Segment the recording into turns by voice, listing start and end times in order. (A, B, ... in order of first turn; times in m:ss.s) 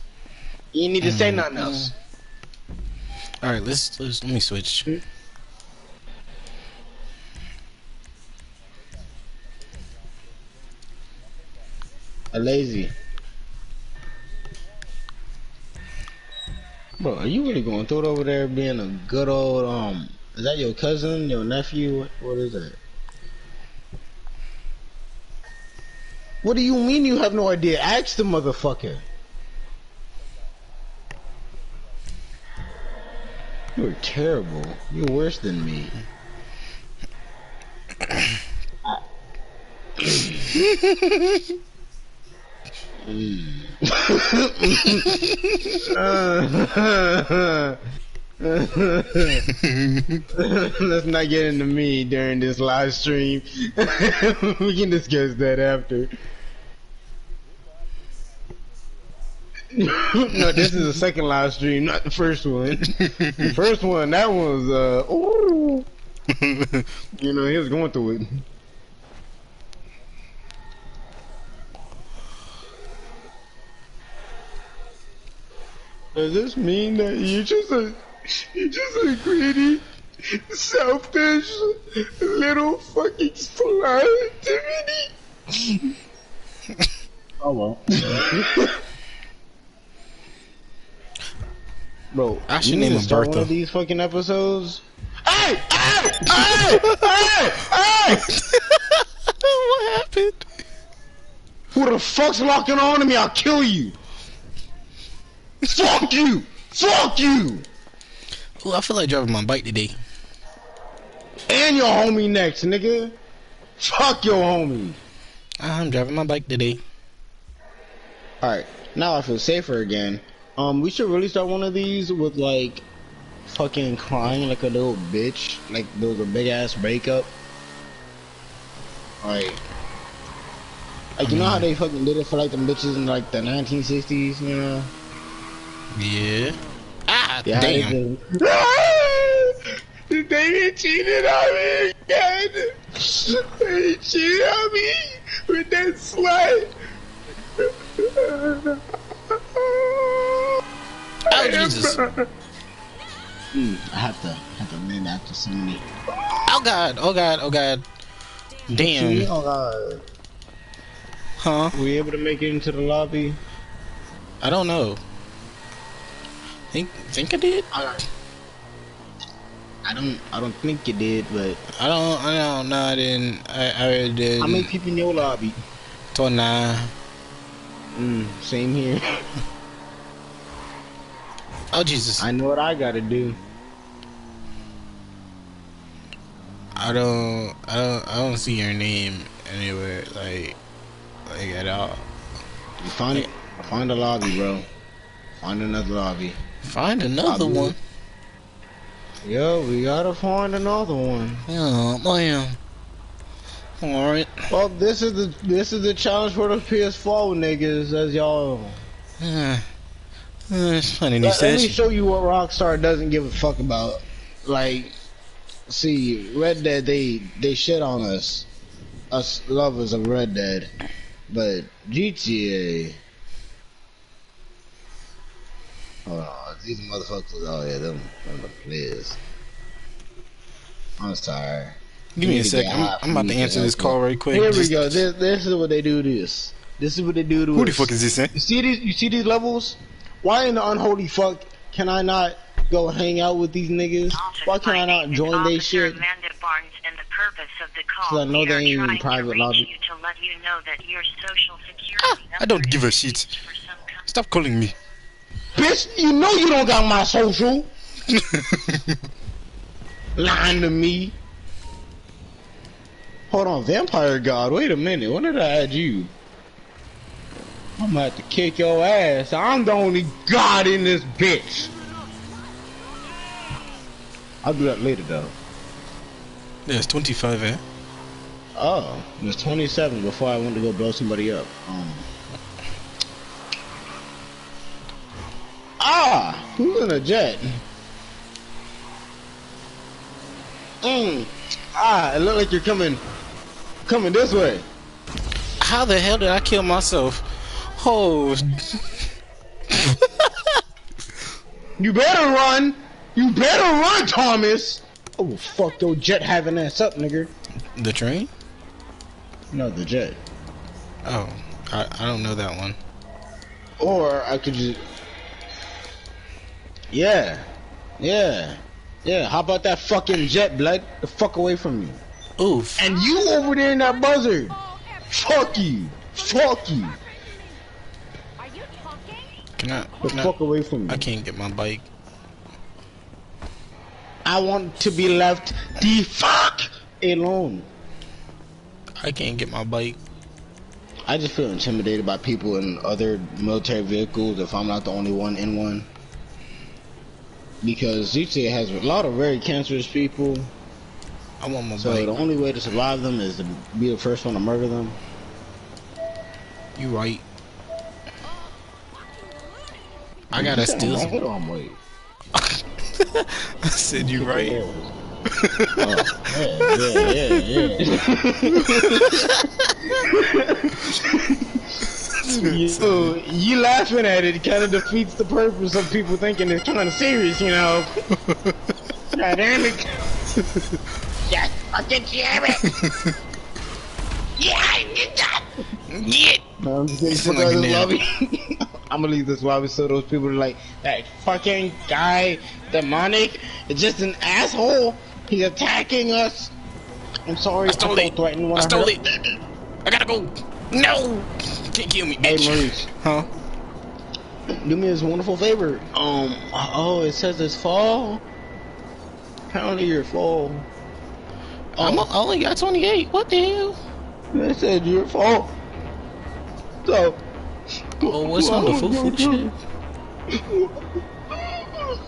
0:00.7-0:01.9 A
0:01.0-0:01.9 B
0:03.4-0:04.9 B
0:12.3-0:12.9 A
0:17.0-0:22.8 A
0:26.4-0:29.0 A
0:33.8-0:36.0 A
0:40.0-0:40.5 A
0:40.6-0:41.4 B
0:43.0-0:45.2 A
0:45.1-0:45.7 B
0:45.8-0:47.8 A
0:48.4-0:49.4 A
0:49.5-0:50.2 B
0:50.3-0:56.1 A
0:59.7-1:05.9 A
1:02.9-1:03.5 B
1:06.3-1:06.9 B
1:07.2-1:08.4 A
1:16.1-1:25.9 A
1:27.4-1:28.8 A
1:32.1-1:38.3 A
1:32.5-1:33.5 B
1:36.4-1:37.2 B
1:38.1-1:40.5 B
1:41.7-1:44.0 A
1:45.6-1:47.7 A
1:48.6-1:50.0 B
1:51.5-1:53.2 A
1:53.8-1:55.0 A
1:55.6-1:56.8 B
1:58.4-2:02.8 A
2:03.5-2:07.3 A
2:09.2-2:09.6 A
2:11.2-2:14.9 A
2:11.2-2:11.7 B
2:16.0-2:18.0 B
2:17.5-2:26.7 A
2:27.6-2:30.6 A
2:31.3-2:32.0 B
2:31.3-2:32.3 A
2:33.5-2:35.9 A
2:36.5-2:37.8 B
2:38.7-2:39.3 B
2:38.7-2:40.0 A
2:41.4-2:41.8 B
2:41.7-2:43.4 A
2:44.4-2:45.0 B
2:46.7-2:47.7 B
2:47.7-2:48.0 A
2:49.9-2:51.6 A
2:51.7-2:54.7 B
2:54.4-2:55.6 A
2:56.1-2:56.9 B
2:58.0-2:59.3 A
3:01.7-3:02.3 B
3:02.2-3:03.4 A
3:06.8-3:10.6 B
3:11.3-3:12.0 B
3:12.8-3:14.7 A
3:15.4-3:16.4 A
3:16.6-3:17.8 B
3:17.2-3:17.8 A
3:19.2-3:21.5 A
3:21.5-3:22.6 B
3:23.8-3:24.4 B
3:24.5-3:28.8 A
3:29.2-3:29.7 B
3:30.5-3:31.8 B
3:31.2-3:35.0 A
3:35.7-3:38.5 A
3:39.1-3:40.7 A
3:41.3-3:43.0 A
3:46.1-3:49.2 A
3:51.0-4:06.0 A
3:52.2-3:55.0 B
3:57.5-3:58.3 B
4:04.1-4:14.0 C
4:08.1-4:09.7 A
4:12.0-4:13.3 B
4:14.1-4:14.8 B
4:15.6-4:17.7 A
4:18.1-4:19.0 B
4:20.2-4:21.2 A
4:23.3-4:26.1 A
4:27.8-4:31.7 A
4:34.4-4:35.4 A
4:36.7-4:37.6 B
4:38.6-4:42.1 A
4:45.8-4:47.6 A
4:50.8-4:53.0 A
4:53.9-4:54.7 A
4:55.6-4:58.8 B
4:59.7-5:00.6 B
5:01.8-5:07.3 A
5:07.7-5:08.3 B
5:09.5-5:10.2 A
5:11.0-5:12.8 B
5:13.8-5:14.8 A
5:16.9-5:17.5 A
5:18.0-5:22.0 A
5:22.4-5:22.8 B
5:22.8-5:24.6 A
5:25.1-5:27.0 A
5:29.6-5:30.3 B
5:30.0-5:31.1 A
5:30.9-5:31.9 B
5:34.2-5:37.7 A
5:39.0-5:40.0 B
5:41.1-5:45.9 A
5:47.6-5:50.5 A
5:51.4-5:52.1 B
5:51.8-5:55.0 A
5:56.8-5:57.3 B
6:00.3-6:01.2 B
6:00.4-6:01.8 A
6:02.4-6:04.6 B
6:04.0-6:04.9 A
6:05.3-6:07.7 B
6:05.8-6:09.3 A
6:08.5-6:10.0 B
6:10.0-6:11.6 A
6:12.0-6:13.2 B
6:12.2-6:17.9 A
6:18.3-6:18.5 B
6:19.1-6:20.1 A
6:21.3-6:22.7 A
6:22.7-6:23.1 B
6:24.4-6:25.5 A
6:25.9-6:26.4 B
6:26.6-6:36.5 A
6:27.1-6:27.9 B
6:37.3-6:39.0 A
6:37.7-6:39.2 B
6:39.8-6:43.3 B
6:42.2-6:42.9 A
6:44.6-6:48.2 A
6:49.5-6:50.7 A
6:51.8-6:52.1 A
6:51.8-6:53.8 B
6:54.3-6:55.6 A
6:56.8-6:57.2 A
6:58.0-6:59.5 A
6:58.1-6:59.6 B
7:00.3-7:00.8 A
7:01.4-7:01.9 A